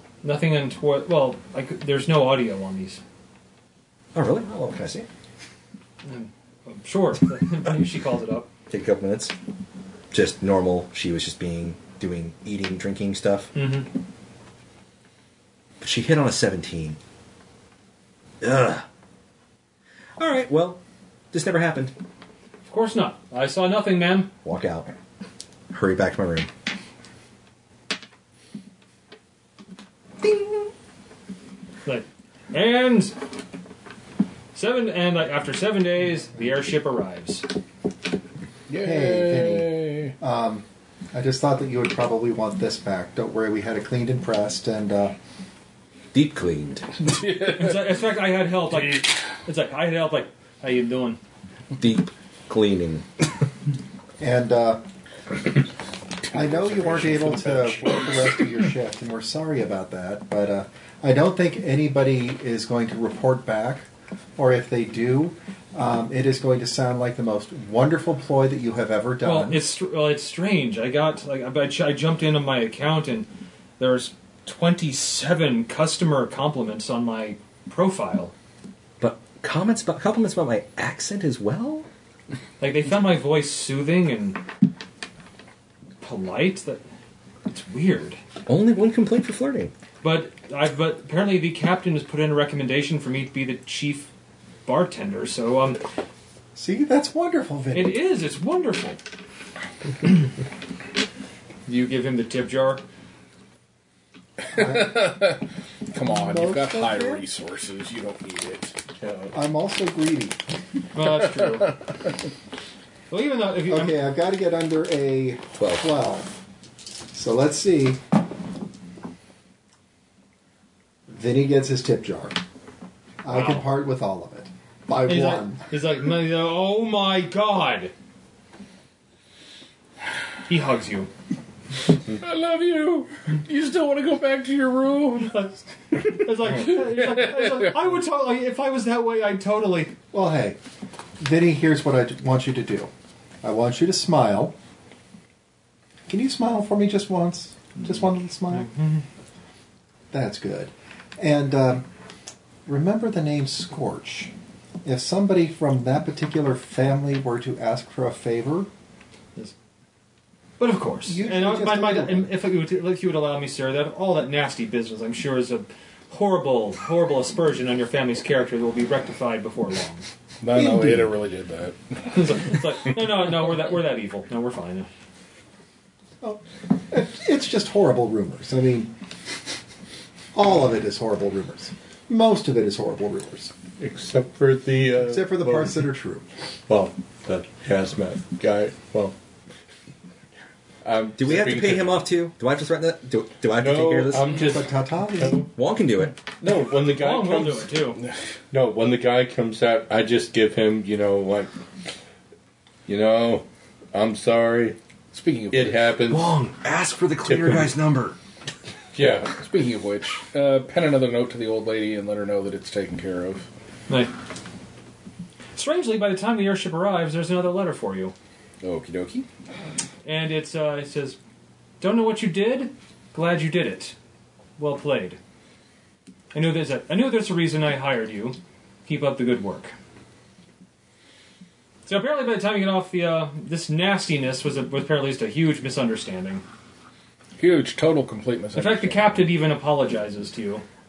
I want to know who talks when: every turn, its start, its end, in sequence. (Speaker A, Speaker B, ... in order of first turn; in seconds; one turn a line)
Speaker A: 0.2-3.0
Speaker B: 4.1-5.1
Speaker A: 6.0-8.5
Speaker B: 8.7-9.3
Speaker B: 10.1-13.5
Speaker A: 13.5-13.9
Speaker B: 15.8-17.0
Speaker B: 18.4-18.9
Speaker B: 20.2-20.8
Speaker B: 21.3-21.9
Speaker A: 22.6-24.3
Speaker B: 24.4-24.9
Speaker B: 25.7-26.5
Speaker B: 30.2-30.7
Speaker A: 31.8-33.1
Speaker A: 34.5-37.5
Speaker C: 38.7-40.1
Speaker D: 38.8-45.1
Speaker B: 46.1-47.1
Speaker C: 47.1-47.8
Speaker A: 47.3-51.2
Speaker B: 51.7-53.0
Speaker D: 54.2-54.8
Speaker C: 56.2-58.5
Speaker D: 56.3-69.6
Speaker A: 69.2-73.3
Speaker A: 73.8-78.3
Speaker B: 79.0-81.9
Speaker A: 82.6-84.4
Speaker A: 86.0-86.8
Speaker A: 87.5-88.2
Speaker B: 88.5-89.7
Speaker A: 90.0-94.1
Speaker A: 94.7-95.8
Speaker D: 96.5-98.0
Speaker A: 97.7-99.0
Speaker A: 101.7-102.8
Speaker C: 104.4-108.8
Speaker D: 104.5-105.1
Speaker D: 106.0-107.2
Speaker E: 109.0-109.3
Speaker D: 109.3-110.4
Speaker A: 110.9-111.8
Speaker A: 113.1-114.0
Speaker D: 113.7-116.3
Speaker B: 115.6-115.9
Speaker D: 117.1-118.0
Speaker D: 121.1-122.4
Speaker D: 123.2-125.6
Speaker A: 123.3-123.7
Speaker A: 125.0-127.9
Speaker A: 130.5-131.1
Speaker C: 132.1-135.5
Speaker A: 135.3-139.9
Speaker C: 136.7-137.6
Speaker D: 140.1-140.6
Speaker D: 141.2-142.9
Speaker D: 143.4-144.5
Speaker D: 146.1-148.7
Speaker A: 148.5-149.0
Speaker D: 150.1-151.9
Speaker D: 152.7-154.3
Speaker D: 154.8-158.7
Speaker A: 160.6-170.1
Speaker D: 161.1-162.3
Speaker C: 170.4-172.6
Speaker D: 170.5-171.2
Speaker A: 172.1-174.9
Speaker D: 176.2-178.9
Speaker D: 180.3-183.5
Speaker E: 183.8-185.8
Speaker D: 185.0-186.2
Speaker E: 186.7-189.2
Speaker E: 190.8-192.0
Speaker B: 191.2-194.4
Speaker E: 193.5-195.5
Speaker D: 194.4-195.5
Speaker B: 195.5-196.2
Speaker E: 196.4-197.7
Speaker A: 196.9-198.0
Speaker E: 198.5-201.5
Speaker E: 202.9-204.8
Speaker C: 205.1-205.9
Speaker E: 205.5-206.3
Speaker B: 206.1-208.2
Speaker E: 207.2-207.7
Speaker E: 208.9-209.4
Speaker C: 209.3-213.5
Speaker A: 215.6-218.1
Speaker C: 218.6-219.2
Speaker A: 220.0-221.2
Speaker A: 221.8-223.9
Speaker A: 224.6-225.2
Speaker A: 226.3-229.7
Speaker A: 231.8-236.4
Speaker C: 237.4-239.3
Speaker A: 238.5-240.6